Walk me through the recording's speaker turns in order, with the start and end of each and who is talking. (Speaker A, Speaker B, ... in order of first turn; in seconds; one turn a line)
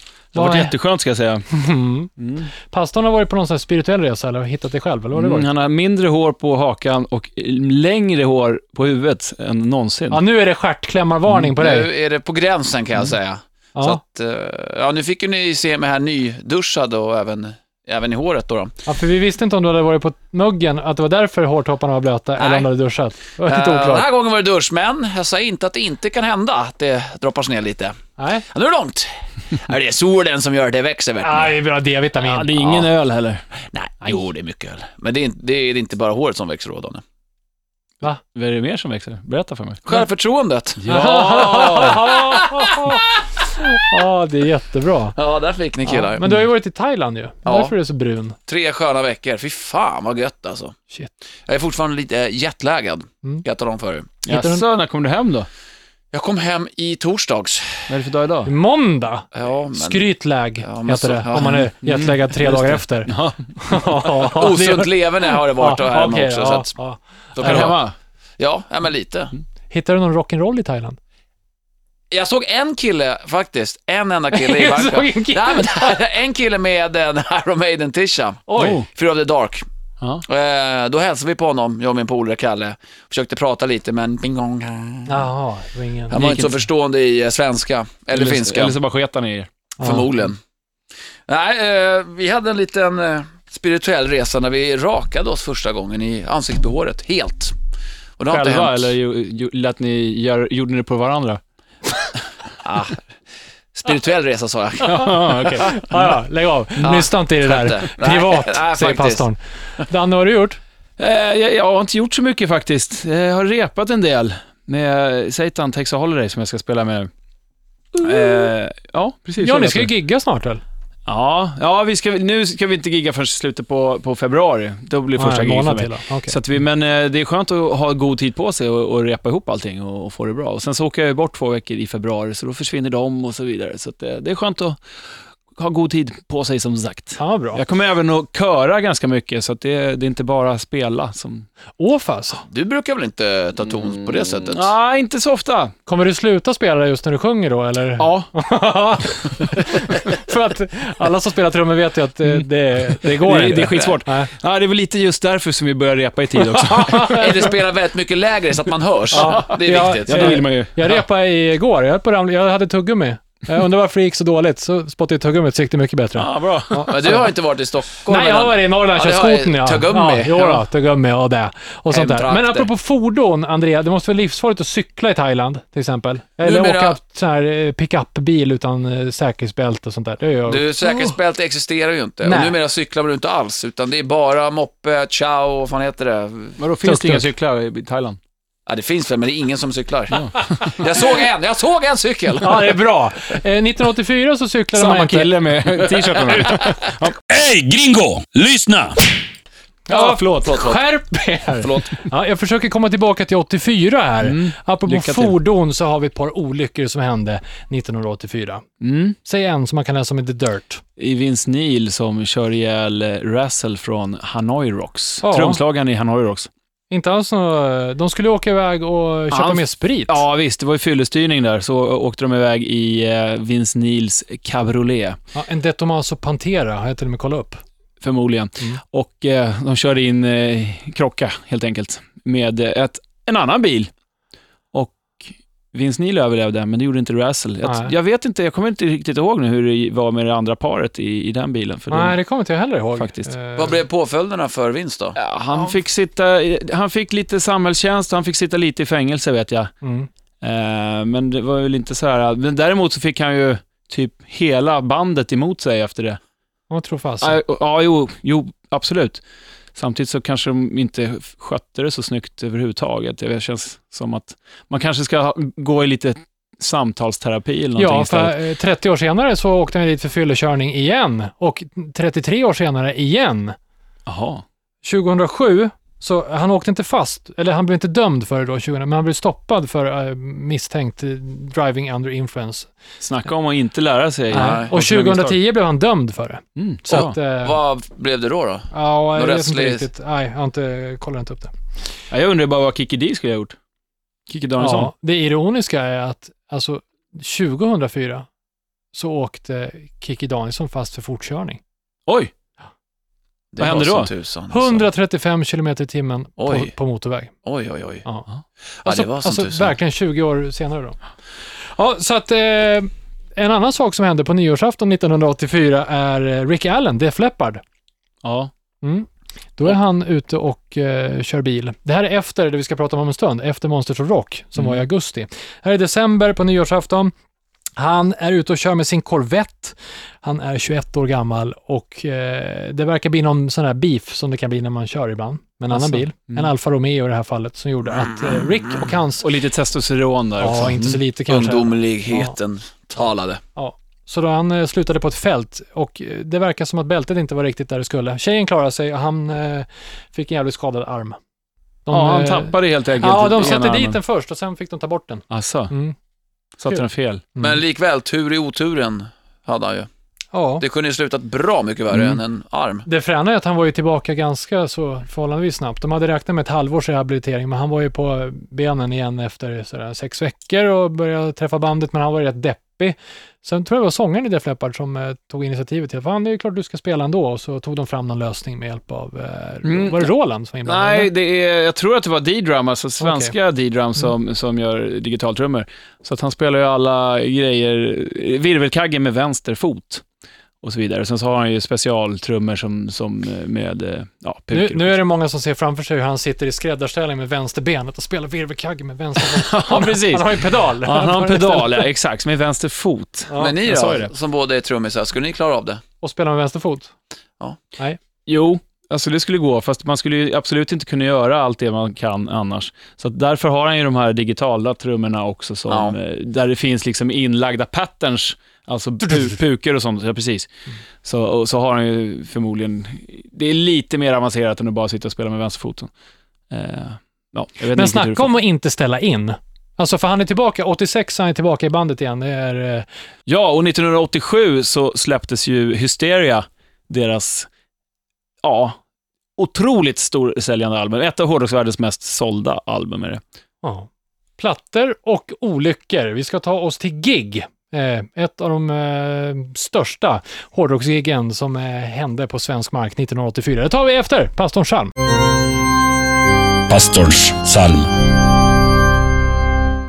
Speaker A: 0.3-1.4
Speaker B: 0.3-0.7
Speaker B: 1.5-2.1
Speaker A: 2.2-2.5
Speaker B: 2.6-5.5
Speaker A: 5.2-10.2
Speaker B: 10.1-11.9
Speaker C: 11.6-18.7
Speaker B: 18.9-24.1
Speaker C: 22.4-22.7
Speaker C: 23.4-28.0
Speaker B: 28.2-28.5
Speaker C: 28.5-31.5
Speaker B: 31.2-32.8
Speaker A: 32.2-33.4
Speaker C: 33.7-37.0
Speaker A: 38.3-39.8
Speaker C: 39.9-43.0
Speaker A: 40.8-42.0
Speaker B: 40.9-45.2
Speaker C: 45.1-46.3
Speaker B: 45.9-48.4
Speaker C: 47.5-47.7
Speaker C: 48.5-50.8
Speaker C: 51.5-54.1
Speaker A: 54.2-55.5
Speaker B: 54.3-54.6
Speaker C: 56.1-57.9
Speaker A: 57.9-58.5
Speaker B: 58.5-67.7
Speaker C: 59.3-60.1
Speaker C: 60.6-61.7
Speaker A: 61.8-63.8
Speaker C: 64.2-66.7
Speaker C: 67.4-67.8
Speaker A: 67.4-67.9
Speaker C: 68.4-69.3
Speaker B: 69.7-71.0
Speaker C: 72.1-79.7
Speaker B: 74.3-76.0
Speaker B: 78.5-78.8
Speaker A: 78.6-78.9
Speaker C: 80.3-85.2
Speaker B: 85.1-86.4
Speaker C: 86.1-88.8
Speaker A: 86.2-86.5
Speaker A: 88.1-89.5
Speaker B: 89.8-90.1
Speaker C: 89.8-90.4
Speaker C: 91.3-97.5
Speaker C: 98.2-98.9
Speaker A: 98.3-101.4
Speaker C: 102.6-103.0
Speaker C: 103.8-105.7
Speaker A: 104.8-106.0
Speaker B: 104.8-110.6
Speaker C: 106.8-109.2
Speaker A: 111.0-117.1
Speaker A: 118.0-119.9
Speaker B: 119.4-120.6
Speaker A: 121.1-134.8
Speaker B: 125.2-126.4
Speaker A: 135.6-141.5
Speaker B: 137.2-137.6
Speaker B: 141.8-142.4
Speaker C: 142.4-144.7
Speaker A: 144.5-145.7
Speaker B: 145.9-154.3
Speaker A: 148.0-148.3
Speaker A: 153.0-157.5
Speaker B: 156.5-157.4
Speaker C: 157.0-160.4
Speaker B: 159.1-167.3
Speaker A: 159.2-159.4
Speaker A: 160.1-161.0
Speaker A: 166.2-167.1
Speaker C: 166.9-170.6
Speaker B: 168.1-181.1
Speaker C: 171.9-172.7
Speaker C: 176.4-177.0
Speaker C: 180.5-186.6
Speaker B: 182.2-182.6
Speaker A: 186.6-188.2
Speaker B: 186.8-187.3
Speaker C: 188.7-192.8
Speaker B: 192.4-195.3
Speaker A: 194.8-197.2
Speaker D: 197.3-199.1
Speaker B: 199.9-208.6
Speaker C: 199.9-200.8
Speaker C: 201.6-202.1
Speaker A: 204.2-205.4
Speaker A: 208.8-209.2
Speaker B: 209.2-210.8
Speaker A: 211.0-216.5
Speaker B: 215.2-215.6
Speaker B: 216.9-220.2
Speaker A: 219.3-225.2
Speaker B: 225.3-227.6
Speaker A: 228.0-233.9
Speaker A: 234.7-242.2
Speaker B: 237.6-237.9
Speaker B: 241.9-243.8
Speaker A: 243.0-243.3
Speaker C: 243.6-245.2
Speaker A: 245.2-249.7
Speaker B: 249.8-250.1
Speaker A: 250.4-256.2
Speaker B: 256.7-257.4
Speaker A: 257.2-259.2
Speaker A: 259.8-268.4
Speaker B: 267.8-273.6
Speaker A: 274.1-274.4
Speaker B: 274.8-282.7
Speaker A: 283.0-285.4
Speaker B: 284.3-287.6
Speaker C: 284.3-284.7
Speaker A: 286.6-287.1
Speaker C: 287.0-289.9
Speaker B: 288.7-291.5
Speaker A: 292.1-293.6
Speaker A: 294.3-294.9
Speaker B: 294.6-298.3
Speaker B: 298.9-301.6
Speaker C: 303.5-304.9
Speaker A: 303.6-304.1
Speaker B: 304.5-307.3
Speaker C: 306.4-306.7
Speaker C: 307.4-308.1
Speaker C: 308.8-309.7
Speaker B: 308.9-311.0
Speaker B: 311.7-317.6
Speaker A: 318.2-318.5
Speaker B: 318.8-327.1
Speaker B: 327.8-339.3
Speaker A: 335.7-336.5
Speaker A: 339.2-341.0
Speaker B: 340.4-342.4
Speaker C: 341.3-343.4
Speaker B: 343.6-351.2
Speaker B: 351.9-356.0
Speaker A: 351.9-354.0
Speaker A: 355.3-355.7
Speaker A: 356.6-357.3
Speaker B: 357.4-357.6
Speaker C: 357.4-359.9
Speaker B: 360.3-360.6
Speaker C: 360.6-362.9
Speaker A: 361.9-362.2
Speaker B: 362.9-381.1
Speaker A: 379.6-380.1
Speaker A: 380.6-390.0
Speaker B: 383.0-383.3
Speaker A: 390.6-395.0
Speaker B: 394.5-401.9
Speaker A: 399.2-404.1
Speaker B: 403.3-403.6
Speaker C: 403.4-405.8
Speaker B: 406.0-406.9
Speaker A: 408.3-420.5
Speaker C: 415.7-416.0
Speaker B: 419.1-419.3
Speaker A: 421.0-425.9
Speaker A: 426.5-428.3
Speaker B: 427.7-432.9
Speaker A: 433.3-437.5
Speaker A: 438.4-438.8
Speaker A: 439.4-443.2
Speaker B: 443.6-454.9
Speaker D: 456.7-457.9